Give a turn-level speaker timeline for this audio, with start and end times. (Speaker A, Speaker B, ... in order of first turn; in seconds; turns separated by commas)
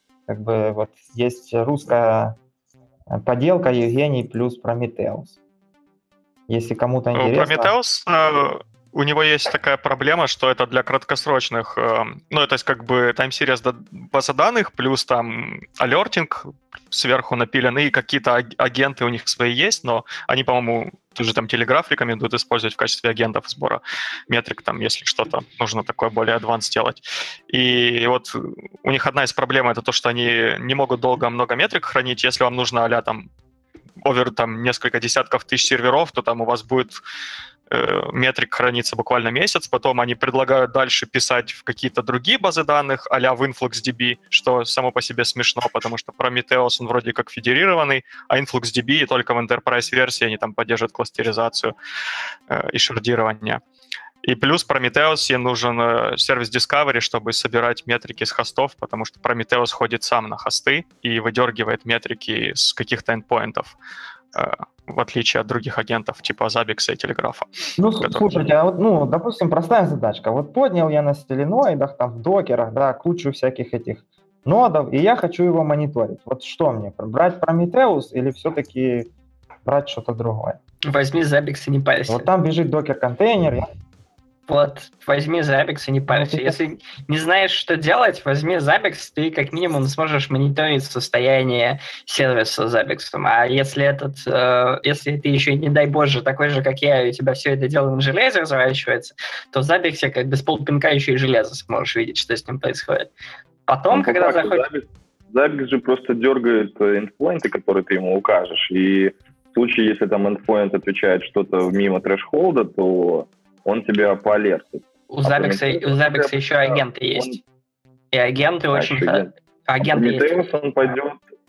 Speaker A: 0.3-2.4, Speaker A: 3.1-5.3, Speaker A: 6.5-7.7, Speaker B: 7.1-33.3, Speaker B: 34.0-37.0, Speaker B: 37.7-51.7, Speaker B: 52.5-53.6, Speaker B: 54.2-63.8, Speaker B: 64.3-67.5, Speaker A: 67.8-79.1, Speaker B: 68.0-68.5, Speaker A: 79.7-80.6, Speaker C: 80.9-82.3, Speaker A: 82.1-83.7, Speaker C: 84.5-103.1, Speaker A: 86.1-86.5, Speaker C: 103.7-104.7, Speaker D: 103.9-117.4, Speaker C: 115.1-117.4, Speaker C: 118.1-120.3, Speaker D: 118.7-121.2